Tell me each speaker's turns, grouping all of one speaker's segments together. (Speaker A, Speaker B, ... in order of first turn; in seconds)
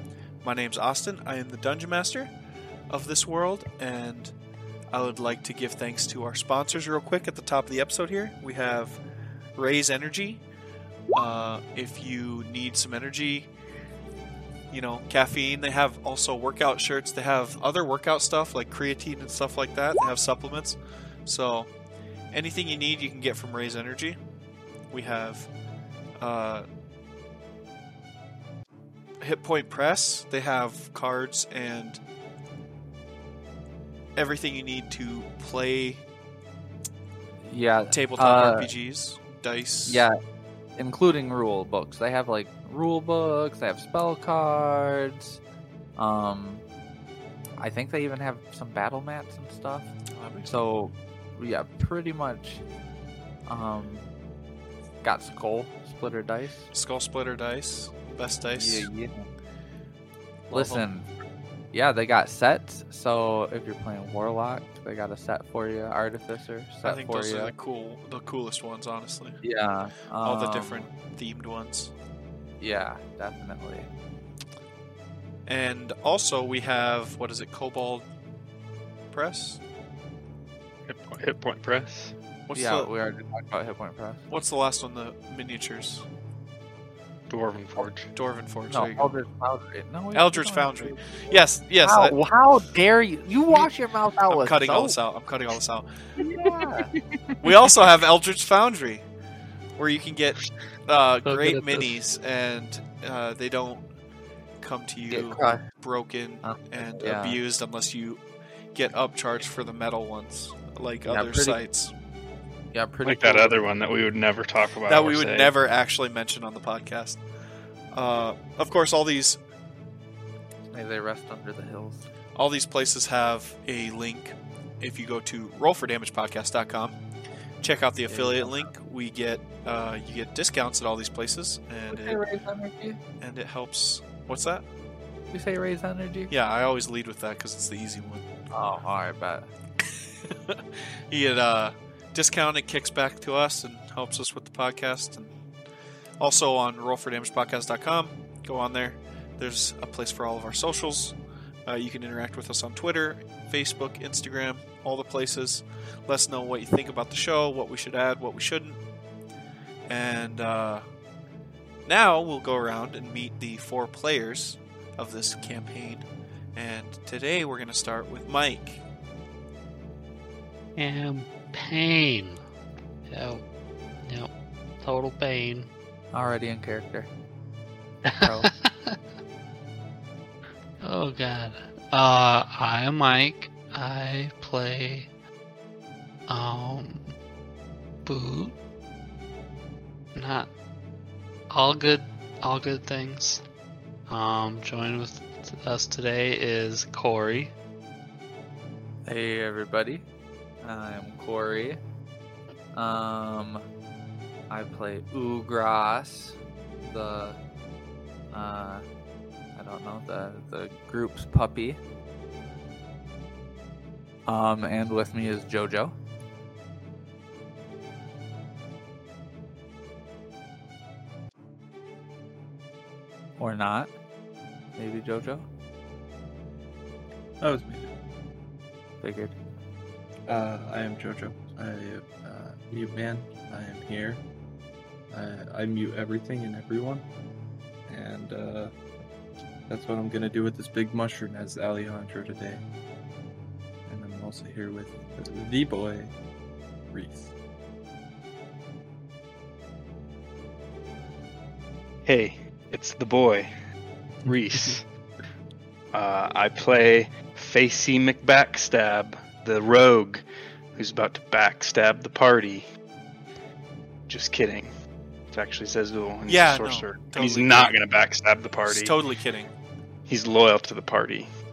Speaker A: 0.4-2.3, 2.9-4.3, 4.9-9.0, 9.6-10.4, 11.1-13.5, 14.7-21.7, 22.3-24.2, 24.9-25.5, 26.2-26.7, 29.2-32.0, 34.2-36.0, 37.9-40.0, 50.1-50.6, 56.7-58.9, 60.5-60.8, 66.8-69.4, 70.2-71.9, 75.5-78.1, 79.1-79.6, 82.5-82.9, 84.3-86.1, 88.1-89.2, 90.1-92.2, 94.3-95.9, 97.4-99.0, 99.8-103.8, 104.6-108.2, 108.7-111.9, 114.9-117.2, 117.9-119.4, 122.3-127.0, 127.6-132.2, 133.2-134.7, 136.3-138.2, 140.2-145.3, 146.2-158.8, 159.9-160.8, 161.8-166.0, 166.6-168.8, 266.2-267.8, 268.6-269.5
Speaker B: 37.4-38.7, 39.9-40.2, 40.8-45.4, 46.0-46.6, 47.6-49.9, 50.5-52.6, 53.5-54.0, 55.0-56.7, 58.6-59.2, 60.5-61.1, 61.7-67.5, 69.4-70.9, 72.6-73.9, 82.5-84.2, 88.7-95.0, 96.2-96.9, 105.1-105.6, 106.4-107.4, 111.0-111.6, 112.7-113.8, 120.7-122.0, 128.1-128.7, 131.9-133.0, 135.3-136.3, 138.5-139.5, 176.1-177.1, 178.2-178.5, 199.0-200.0, 200.6-201.8, 202.7-203.7, 204.5-207.4, 208.3-208.8, 209.6-211.8, 214.2-215.9, 223.4-223.9, 224.8-225.5, 229.0-229.3
Speaker C: 80.9-82.1, 87.3-88.1, 113.0-115.5, 252.1-253.5, 254.2-254.8, 255.9-262.7, 264.1-264.7, 265.3-269.0, 270.1-271.3
Speaker D: 101.2-102.0, 170.8-172.4, 173.1-173.4, 174.8-175.7, 178.1-179.0, 180.8-185.1, 186.3-187.2, 188.1-188.6, 190.2-190.5, 191.5-193.4, 194.1-197.5
Speaker E: 227.4-227.9, 230.3-234.2, 235.1-237.0, 237.9-238.7, 239.7-242.6, 243.9-246.1, 246.9-247.3